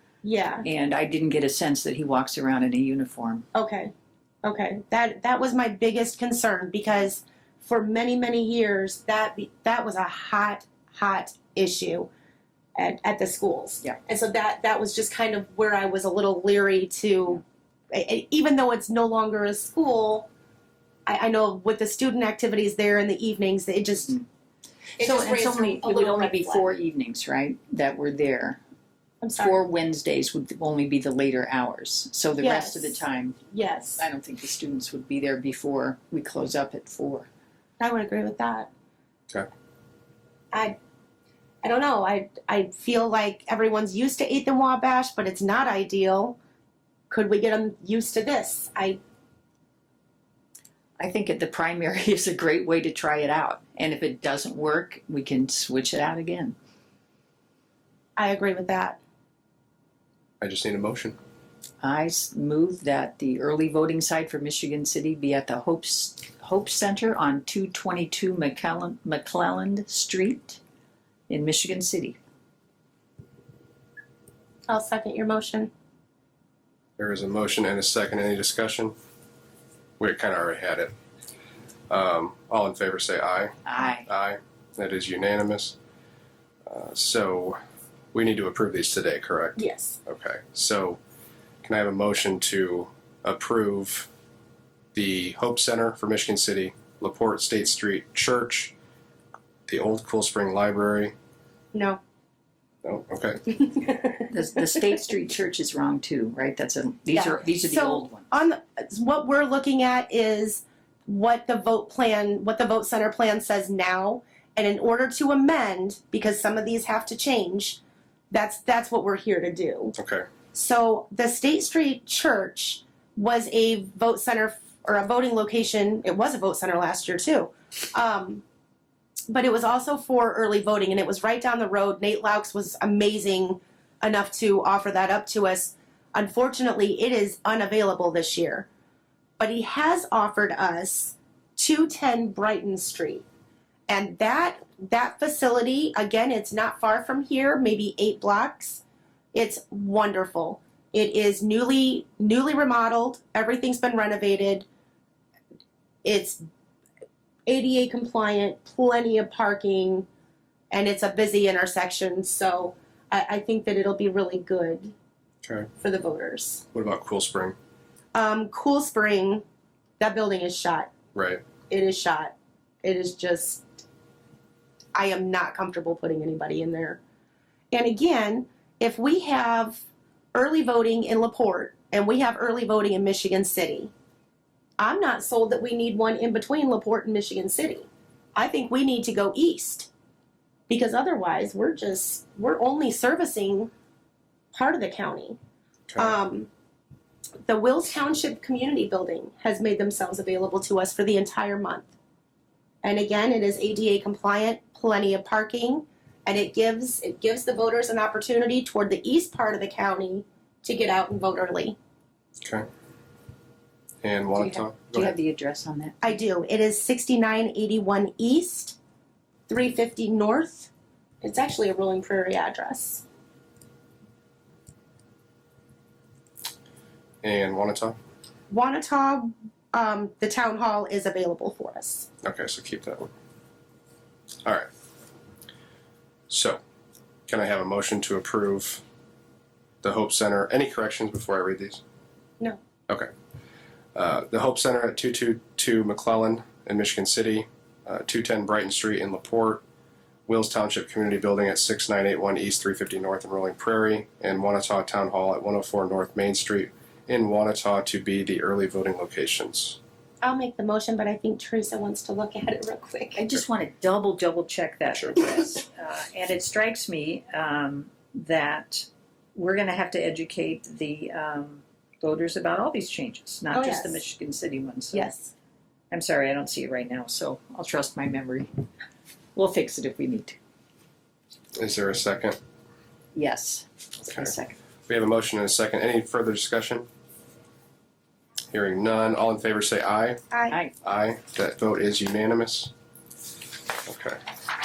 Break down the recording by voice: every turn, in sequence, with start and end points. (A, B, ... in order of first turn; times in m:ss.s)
0:00.2-0:00.6 A
0:00.6-0:03.4 B
0:03.5-0:03.9 A
0:04.4-0:12.1 A
0:12.8-0:20.3 A
0:21.1-0:24.2 A
0:25.0-0:26.7 A
0:25.0-0:28.6 B
0:29.2-0:29.6 A
0:29.4-0:33.4 B
0:32.4-0:34.0 A
0:34.0-0:37.3 B
0:37.8-0:38.7 A
0:41.6-0:46.4 A
0:47.1-0:49.0 A
0:51.0-0:56.6 B
0:58.2-0:59.0 A
1:00.4-1:01.2 C
1:01.8-1:10.6 B
1:11.3-1:12.2 B
1:14.7-1:15.7 A
1:17.0-1:19.0 C
1:20.0-1:20.9 C
1:21.9-1:25.8 C
1:23.6-1:24.1 B
1:26.7-1:27.6 C
1:28.1-1:31.0 C
1:29.6-1:30.0 A
1:31.6-1:34.1 C
1:34.9-1:38.7 C
1:39.7-1:41.1 C
1:41.7-1:42.0 A
1:42.8-1:43.6 C
1:44.3-1:48.3 B
1:47.1-1:57.8 A
1:58.3-1:59.9 A
2:00.0-2:00.3 C
2:00.5-2:08.4 A
2:09.3-2:18.7 A
2:19.4-2:23.2 A
2:23.9-2:28.8 A
2:29.3-2:34.7 A
2:36.0-2:36.4 A
2:37.5-2:40.1 A
2:40.7-2:44.9 A
2:45.8-2:46.6 A
2:46.7-2:47.6 C
2:48.2-2:49.4 A
2:50.0-2:50.9 A
2:51.1-2:51.4 C
2:51.7-2:53.7 A
2:55.0-2:57.0 A
2:57.7-2:59.8 A
3:00.3-3:03.9 A
3:04.8-3:09.9 A
3:10.7-3:13.7 A
3:14.5-3:15.4 A
3:15.9-3:16.2 C
3:16.0-3:16.5 A
3:17.5-3:21.9 A
3:22.8-3:31.8 A
3:34.0-3:35.1 C
3:34.4-3:36.1 B
3:36.0-3:38.8 A
3:39.5-3:40.7 A
3:41.2-3:43.0 A
3:47.2-3:48.0 C
3:48.5-3:52.1 A
3:52.2-3:53.1 C
3:56.3-3:56.6 C
3:57.3-3:58.8 C
3:59.8-4:01.8 C
4:04.0-4:09.6 C
4:10.3-4:19.8 C
4:20.2-4:23.2 A
4:23.2-4:35.1 B
4:24.9-4:25.3 C
4:33.5-4:34.0 A
4:34.9-4:35.3 A
4:35.9-4:38.5 B
4:39.4-4:40.4 B
4:41.6-4:42.4 C
4:43.2-4:44.6 B
4:44.1-4:44.3 C
4:44.9-4:46.9 C
4:48.5-4:50.2 C
4:50.3-4:50.6 A
4:50.8-4:52.7 C
4:53.9-4:54.2 C